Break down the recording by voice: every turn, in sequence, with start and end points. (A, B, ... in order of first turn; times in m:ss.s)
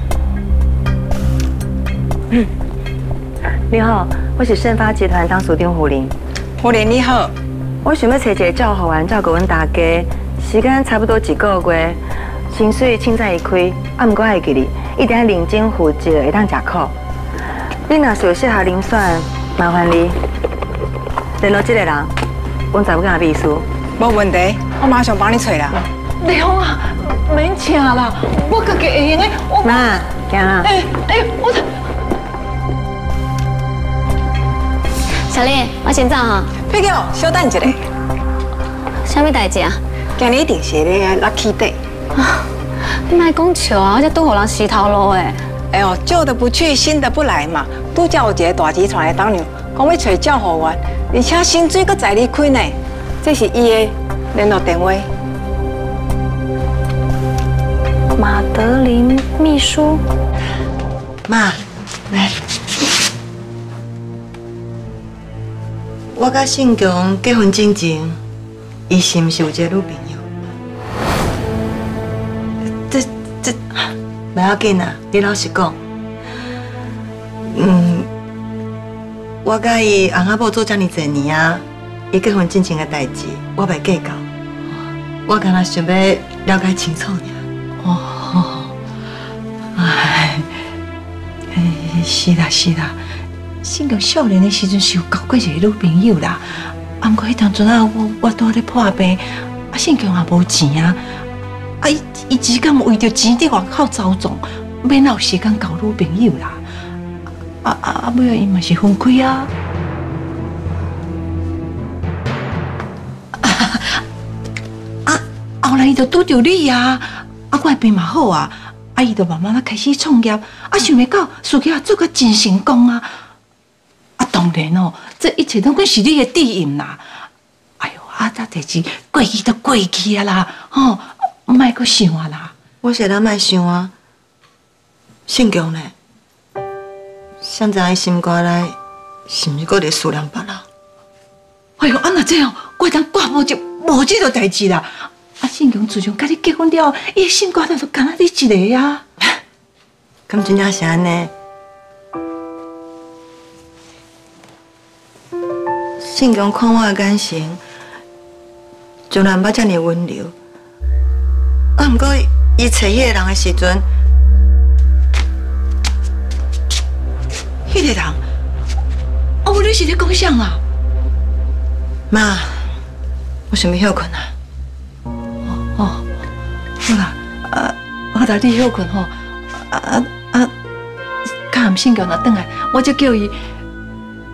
0:03.7-0:06.1 A
0:06.6-0:07.3 B
0:07.8-0:16.9 A
0:17.9-0:20.2 A
0:21.4-0:22.1 A
0:22.7-0:23.7 A
0:24.0-0:25.8 B
0:26.2-0:29.9 C
0:29.6-0:30.7 A
0:30.6-0:31.6 C
0:35.3-0:36.5 D
0:36.6-0:37.8 B
0:39.0-0:39.8 D
0:40.2-0:41.8 B
0:43.1-0:45.4 D
0:45.7-0:55.1 B
0:58.2-1:00.0 A
1:01.3-1:02.3 A
1:06.1-1:08.2 A
1:08.9-1:10.2 A
1:12.9-1:15.8 A
1:17.5-1:18.1 A
1:19.4-1:24.2 A
1:25.2-1:27.4 A
1:27.8-1:28.7 C
1:29.7-1:30.5 C
1:31.5-1:33.0 C
1:33.6-1:41.0 C
1:41.8-1:46.6 C
1:47.6-1:49.5 C
1:53.4-1:54.0 C
1:55.0-2:03.1 C
2:04.2-2:07.0 C
2:07.8-2:12.5 C
2:12.8-2:13.9 A
2:15.3-2:15.9 A
2:17.4-2:18.8 A
2:19.3-2:20.6 A
2:21.8-2:29.0 C
2:30.3-2:31.3 A
2:36.0-2:37.6 A
2:39.1-2:40.3 A
2:41.8-2:43.9 A
2:47.7-2:48.2 C
2:49.4-2:50.6 C
2:52.1-2:52.7 A
2:53.5-2:54.3 A
2:55.4-2:56.1 C
2:56.8-3:00.5 C
3:01.3-3:03.4 C